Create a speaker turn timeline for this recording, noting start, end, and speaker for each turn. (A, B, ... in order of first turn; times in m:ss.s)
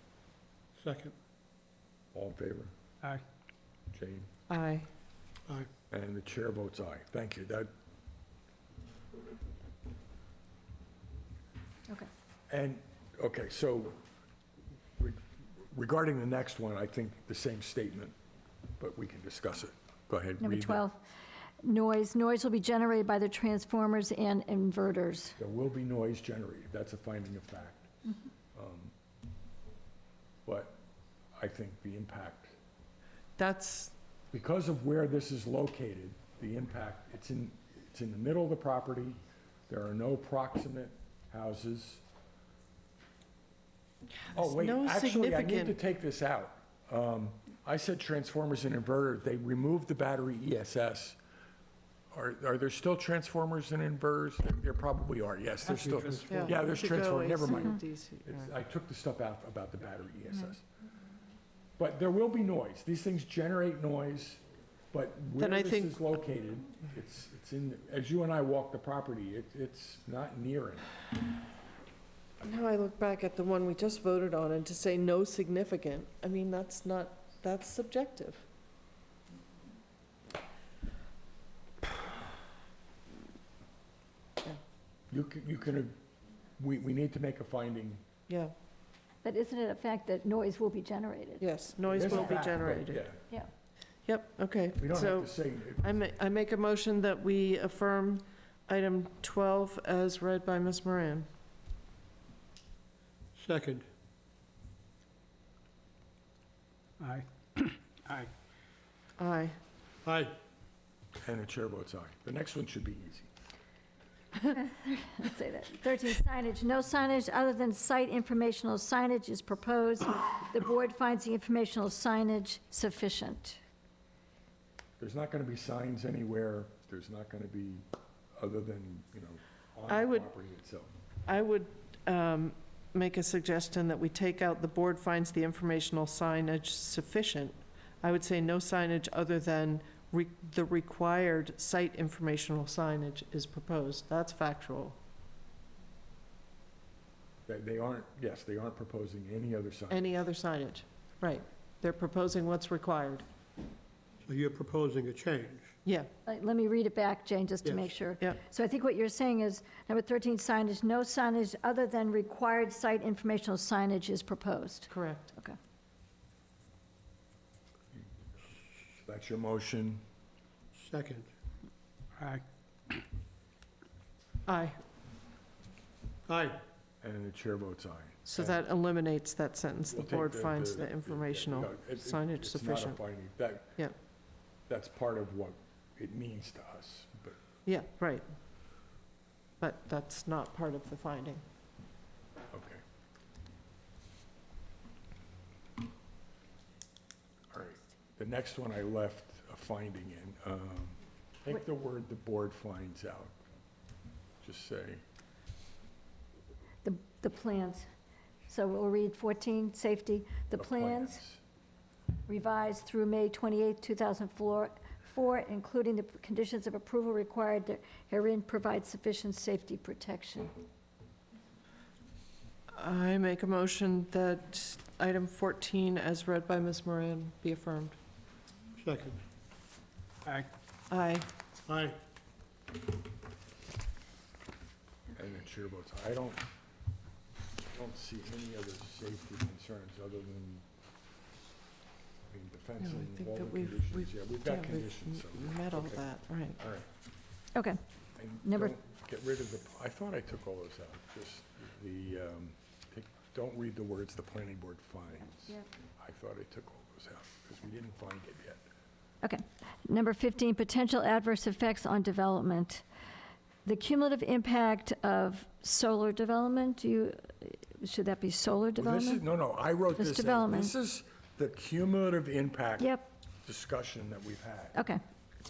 0:00.8-0:01.1 A
0:02.1-0:02.7 B
0:03.9-0:04.3 B
0:04.5-0:04.9 C
0:05.9-0:07.7 B
0:12.5-0:14.0 B
0:15.0-0:18.1 B
0:18.8-0:20.8 B
0:20.4-0:21.0 D
0:21.6-0:25.4 D
0:25.4-0:27.9 B
0:28.5-0:28.9 B
0:30.4-0:30.8 B
0:31.4-0:32.6 B
0:33.4-0:33.9 C
0:34.3-0:42.0 B
0:44.3-0:45.8 C
0:44.3-0:51.2 B
0:52.1-1:00.6 B
0:55.7-0:56.6 A
0:56.3-0:58.5 C
1:01.8-1:10.9 B
1:05.4-1:06.1 C
1:12.4-1:18.4 C
1:25.1-1:25.9 B
1:26.6-1:28.0 B
1:28.3-1:28.5 C
1:29.2-1:31.4 D
1:31.4-1:33.1 C
1:31.9-1:33.2 B
1:32.0-1:32.4 D
1:34.0-1:41.3 C
1:34.8-1:35.9 B
1:43.4-1:43.8 A
1:49.2-1:49.6 C
1:50.0-1:50.4 A
1:51.2-1:53.3 B
1:54.5-2:03.6 D
2:05.0-2:07.8 B
2:08.4-2:10.9 B
2:09.9-2:10.3 C
2:11.2-2:25.0 C
2:27.4-2:30.1 B
2:29.9-2:33.2 C
2:34.2-2:35.7 A
2:35.8-2:36.1 C
2:36.2-2:45.6 D
2:37.6-2:37.9 A
2:44.9-2:45.3 C
2:49.0-2:50.0 B
2:50.7-2:51.3 A
2:52.2-2:52.4 A
2:54.4-2:54.8 C
2:56.3-2:56.6 A
2:57.0-2:58.6 B
2:58.2-3:03.0 C
2:59.9-3:03.8 B
3:04.7-3:07.4 B
3:07.6-3:08.2 C
3:09.6-3:11.4 C
3:12.5-3:12.8 B
3:17.5-3:23.3 B
3:24.4-3:25.0 B
3:26.8-3:27.8 D
3:28.5-3:31.2 D
3:30.6-3:31.4 B
3:32.3-3:40.5 D
3:42.7-3:48.0 C
3:48.8-3:49.2 A
3:50.9-3:51.3 C
3:51.6-3:52.0 A
3:55.1-3:56.4 B
3:57.7-4:00.6 B
4:02.3-4:06.9 B
4:02.8-4:06.6 C
4:07.5-4:07.8 D
4:08.2-4:18.6 B
4:08.4-4:08.8 D
4:19.2-4:22.8 D
4:23.6-4:29.2 D
4:28.8-4:34.8 B
4:30.0-4:30.7 D
4:32.8-4:33.1 D
4:34.7-4:35.0 D